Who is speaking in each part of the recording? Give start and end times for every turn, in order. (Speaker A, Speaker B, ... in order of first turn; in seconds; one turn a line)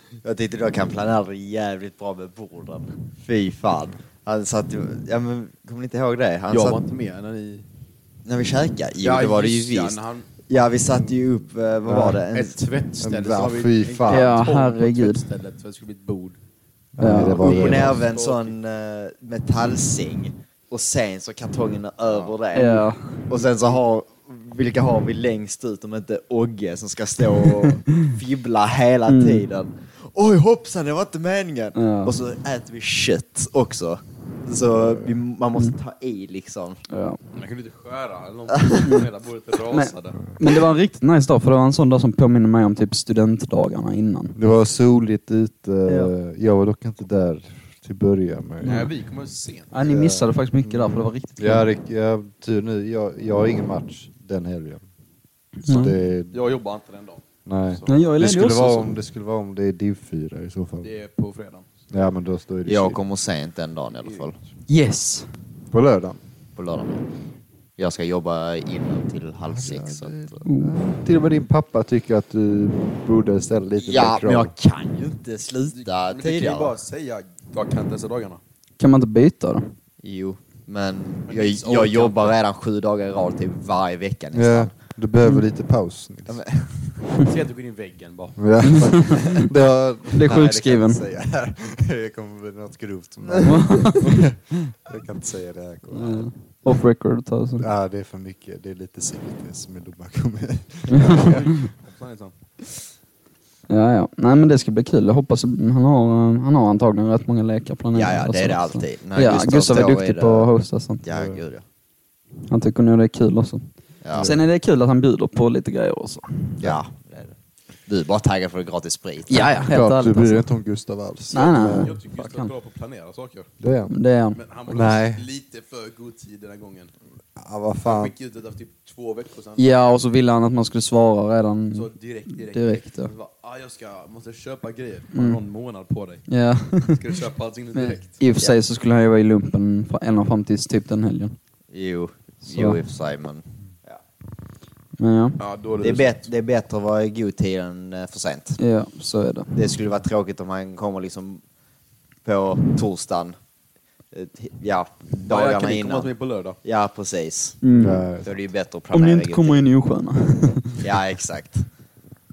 Speaker A: 0.2-6.8
Speaker B: 6.5-7.6
Speaker A: 8.2-12.6
Speaker B: 9.0-10.3
Speaker C: 11.8-12.2
Speaker B: 12.3-16.4
Speaker C: 13.0-14.4
Speaker D: 14.1-15.2
Speaker C: 16.9-18.0
Speaker D: 17.0-17.6
Speaker B: 17.3-18.5
Speaker A: 17.4-36.8
Speaker D: 22.5-23.2
Speaker D: 29.1-29.4
Speaker D: 31.7-32.1
Speaker C: 34.7-35.2
Speaker D: 36.9-37.2
Speaker B: 37.3-40.3
Speaker D: 38.8-39.1
Speaker D: 39.7-44.4
Speaker C: 44.4-48.9
Speaker D: 45.9-46.1
Speaker D: 48.6-48.9
Speaker B: 48.6-49.7
Speaker D: 49.7-51.6
Speaker C: 49.8-54.8
Speaker D: 55.6-55.9
Speaker C: 55.7-56.5
Speaker B: 56.3-58.0
Speaker C: 57.5-60.9
Speaker D: 57.9-58.9
Speaker B: 60.8-61.7
Speaker C: 61.9-63.0
Speaker A: 62.6-64.3
Speaker D: 64.7-65.3
Speaker C: 65.7-66.2
Speaker A: 66.5-67.0
Speaker A: 67.8-70.4
Speaker C: 69.5-74.5
Speaker D: 70.4-70.8
Speaker A: 73.8-76.7
Speaker B: 75.7-78.4
Speaker D: 78.8-79.7
Speaker A: 80.0-84.7
Speaker B: 81.3-82.4
Speaker C: 84.3-86.4
Speaker A: 86.3-86.9
Speaker B: 87.2-89.5
Speaker C: 88.4-96.3
Speaker D: 88.7-89.1
Speaker D: 90.1-91.0
Speaker D: 93.4-94.1
Speaker D: 95.9-97.7
Speaker C: 97.6-101.5
Speaker D: 100.9-101.7
Speaker B: 100.9-102.3
Speaker D: 103.7-111.0
Speaker A: 107.9-110.5
Speaker A: 111.0-111.6
Speaker C: 111.1-111.4
Speaker D: 112.5-116.5
Speaker A: 114.0-114.3
Speaker C: 114.1-114.4
Speaker A: 116.6-117.3
Speaker A: 117.8-119.5
Speaker D: 119.3-120.5
Speaker C: 119.5-121.9
Speaker D: 121.3-122.5
Speaker B: 121.3-123.5
Speaker C: 123.6-123.9
Speaker D: 123.9-124.4
Speaker B: 124.3-126.9
Speaker C: 124.7-125.2
Speaker C: 127.3-128.1
Speaker B: 127.8-129.6
Speaker D: 129.6-133.1
Speaker B: 131.7-138.1
Speaker D: 136.3-137.0
Speaker D: 137.7-141.3
Speaker A: 141.7-144.0
Speaker D: 142.4-142.8
Speaker D: 145.0-145.4
Speaker B: 145.4-146.2
Speaker A: 145.8-148.6
Speaker D: 148.6-149.6
Speaker A: 149.5-151.4
Speaker A: 152.2-153.4
Speaker A: 154.1-157.6
Speaker B: 155.3-156.6
Speaker D: 157.6-158.0
Speaker C: 157.7-158.3
Speaker A: 158.2-159.6
Speaker D: 158.9-160.8
Speaker A: 160.8-161.8